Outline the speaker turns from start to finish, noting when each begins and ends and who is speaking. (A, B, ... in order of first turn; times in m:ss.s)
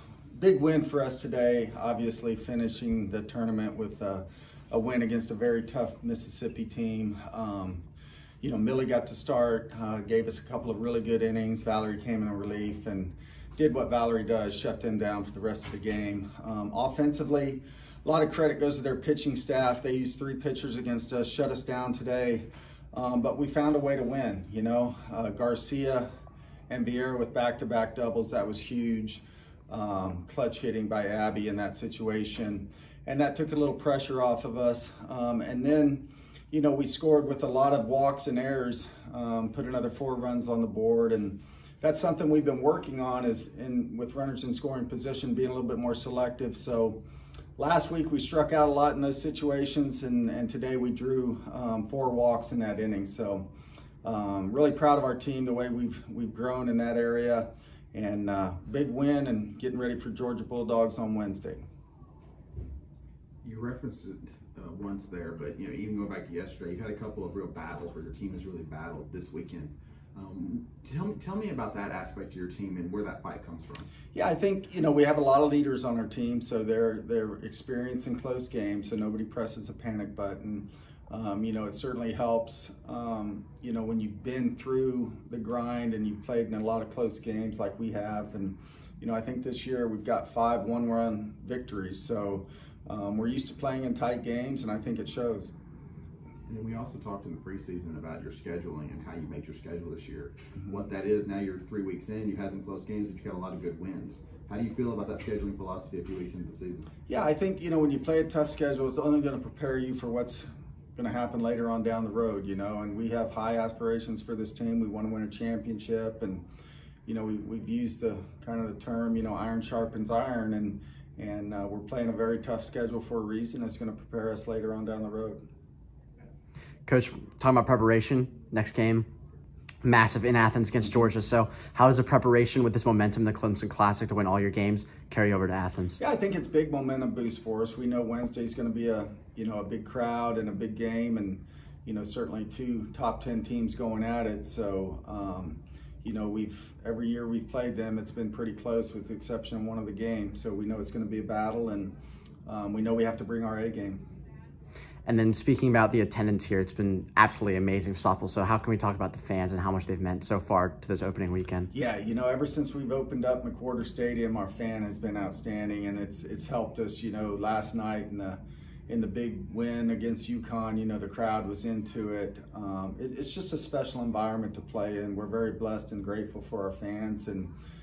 0:00.4-0:07.8 A
0:08.4-0:26.1 A
0:26.7-0:47.0 A
0:47.6-0:53.5 A
0:54.0-1:01.6 A
1:03.4-1:13.9 B
1:14.1-1:35.5 A
1:36.5-1:46.9 B
1:47.1-1:56.4 A
1:57.1-2:05.4 A
2:06.9-2:09.1 C
2:09.8-2:16.0 C
2:16.0-2:31.9 A
2:32.5-2:34.0 A
2:35.1-2:41.7 C
2:41.7-2:57.5 A